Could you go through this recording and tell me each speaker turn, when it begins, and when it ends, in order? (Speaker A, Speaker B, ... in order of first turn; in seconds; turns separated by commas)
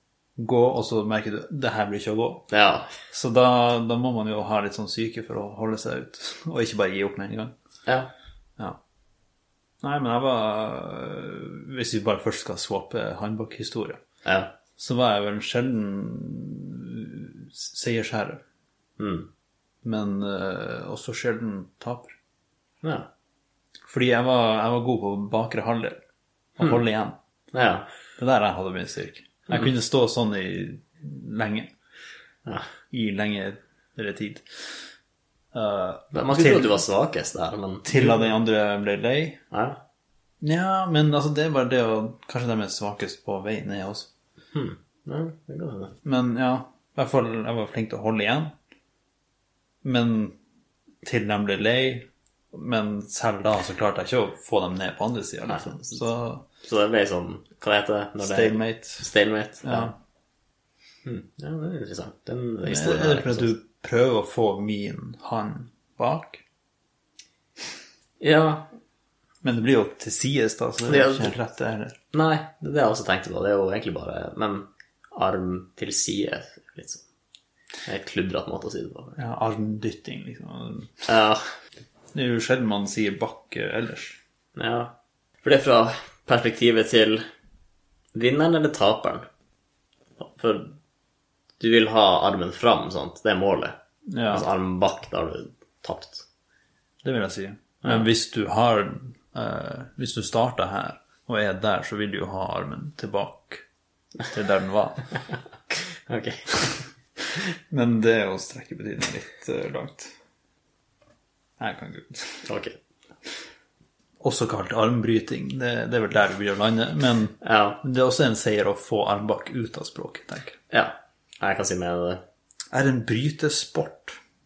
Speaker A: 0.4-2.5, Speaker B: 2.5-2.9, Speaker A: 3.1-7.5, Speaker A: 9.8-14.0, Speaker B: 14.2-14.5, Speaker A: 14.8-18.4, Speaker B: 19.0-19.3, Speaker A: 19.8-22.2, Speaker A: 23.9-26.0, Speaker A: 26.6-27.1, Speaker B: 27.5-27.9, Speaker A: 28.2-31.7, Speaker A: 32.9-34.6, Speaker A: 35.5-36.8, Speaker B: 36.1-38.3, Speaker A: 37.8-39.4, Speaker B: 39.5-39.8, Speaker A: 40.4-44.1, Speaker B: 44.5-45.9, Speaker A: 46.0-48.5, Speaker A: 49.8-50.4, Speaker A: 51.0-56.4, Speaker B: 55.4-56.0, Speaker B: 56.6-59.9, Speaker A: 58.2-59.1, Speaker A: 59.6-59.9, Speaker B: 61.0-63.5, Speaker A: 62.6-66.4, Speaker B: 68.2-68.7, Speaker A: 69.4-72.0, Speaker B: 70.8-71.3, Speaker B: 72.1-77.0, Speaker B: 77.8-79.2, Speaker A: 79.2-81.0, Speaker B: 81.1-81.5, Speaker A: 82.1-84.2, Speaker B: 84.5-87.2, Speaker B: 88.1-89.2, Speaker B: 90.2-90.7, Speaker B: 91.6-93.7, Speaker A: 94.1-94.5, Speaker B: 94.3-96.2, Speaker A: 97.0-103.6, Speaker B: 97.8-98.1, Speaker A: 104.2-105.1, Speaker B: 105.7-106.8, Speaker A: 107.7-110.1, Speaker A: 111.6-112.5, Speaker B: 112.5-112.8, Speaker A: 114.2-120.6, Speaker B: 117.4-117.8, Speaker B: 120.7-122.2, Speaker A: 122.7-124.2